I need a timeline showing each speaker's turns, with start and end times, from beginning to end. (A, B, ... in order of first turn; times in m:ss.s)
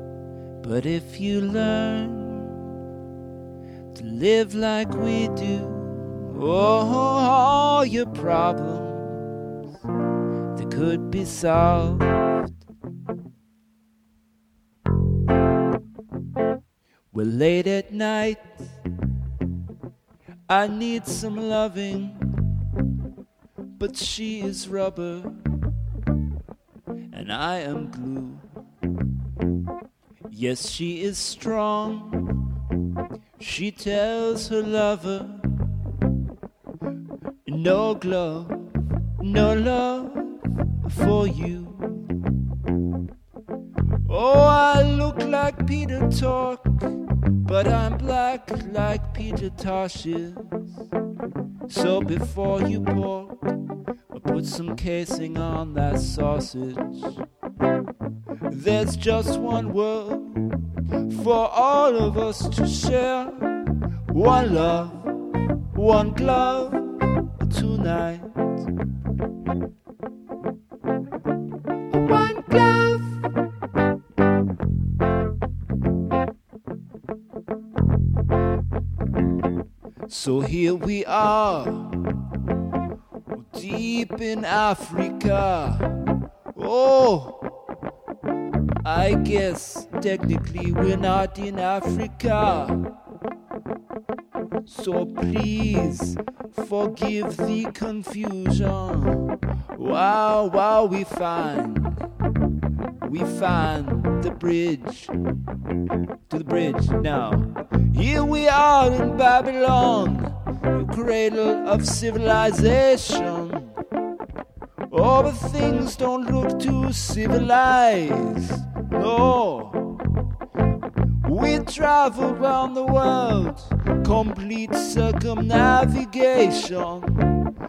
0:00.6-0:02.6 A
0:03.9-0:09.3 A
0:10.5-0:12.3 A
0:17.1-0:18.7 A
0:20.5-0:22.3 A
0:23.8-0:25.4 A
0:27.1-0:28.5 A
0:30.3-0:32.5 A
0:33.4-0:35.6 A
0:37.4-0:42.1 A
0:44.0-0:46.9 A
0:47.4-0:50.7 A
0:51.7-0:53.5 A
0:54.1-0:57.2 A
0:58.5-1:05.1 A
1:05.7-1:08.7 A
1:11.9-1:13.1 A
1:20.1-1:22.0 A
1:23.4-1:25.9 A
1:26.5-1:27.5 A
1:28.8-1:32.9 A
1:34.6-1:42.1 A
1:43.0-1:45.1 A
1:46.3-1:53.8 A
1:54.9-2:00.0 A
2:01.2-2:07.3 A